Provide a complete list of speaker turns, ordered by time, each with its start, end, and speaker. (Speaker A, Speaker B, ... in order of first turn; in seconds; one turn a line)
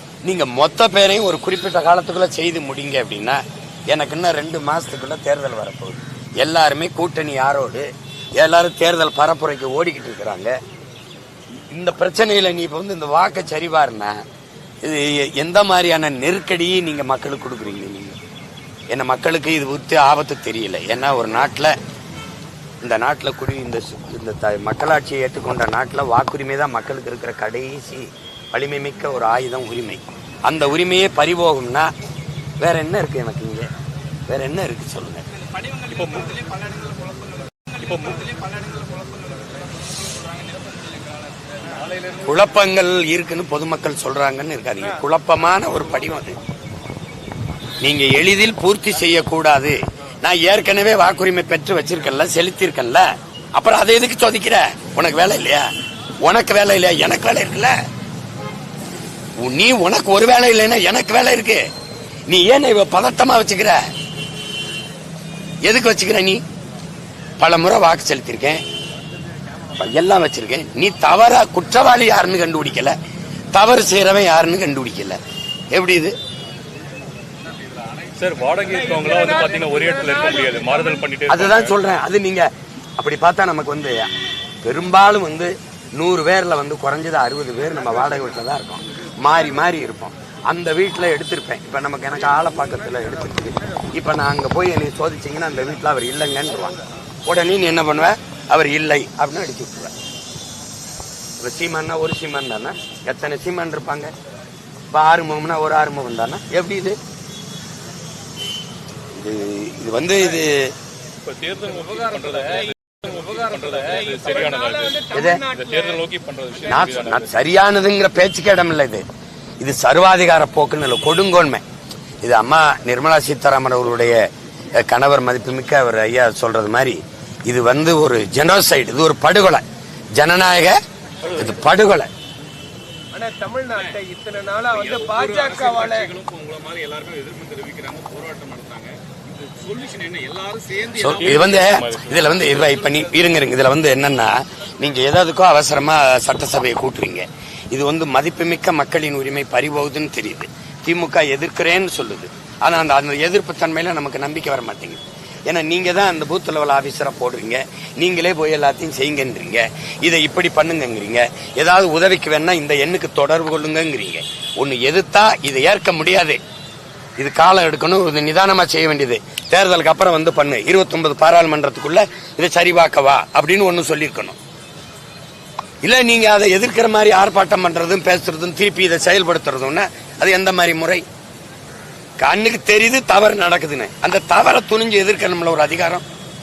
Speaker A: 0.2-10.6
Speaker A: 11.7-14.2
Speaker A: 14.8-18.2
Speaker A: 18.9-21.7
Speaker A: 22.8-31.9
Speaker A: 32.6-33.7
Speaker A: 34.3-35.2
Speaker B: 35.5-42.4
Speaker C: 35.9-36.3
Speaker C: 37.8-38.2
Speaker A: 42.2-46.4
Speaker A: 47.8-55.7
Speaker A: 56.2-57.8
Speaker A: 59.4-61.6
Speaker A: 62.3-63.8
Speaker A: 65.6-66.4
Speaker A: 67.4-68.6
Speaker A: 69.8-73.0
Speaker A: 73.5-75.2
Speaker A: 75.7-76.1
Speaker B: 77.5-80.7
Speaker C: 78.2-81.7
Speaker D: 78.6-81.0
Speaker A: 81.3-84.1
Speaker A: 84.6-99.9
Speaker A: 101.4-104.1
Speaker A: 104.9-107.0
Speaker A: 109.1-110.7
Speaker C: 111.2-114.8
Speaker B: 111.6-115.0
Speaker D: 112.7-113.2
Speaker D: 113.8-117.0
Speaker A: 115.1-115.4
Speaker C: 115.5-117.3
Speaker A: 116.7-119.0
Speaker B: 116.8-117.2
Speaker A: 119.6-121.6
Speaker A: 122.2-124.2
Speaker A: 124.8-129.6
Speaker A: 130.2-132.1
Speaker D: 133.1-136.1
Speaker B: 134.7-141.6
Speaker A: 140.9-166.4
Speaker C: 141.2-142.7
Speaker B: 142.6-143.2
Speaker A: 167.2-174.4
Speaker A: 175.8-181.1
Speaker A: 182.2-186.0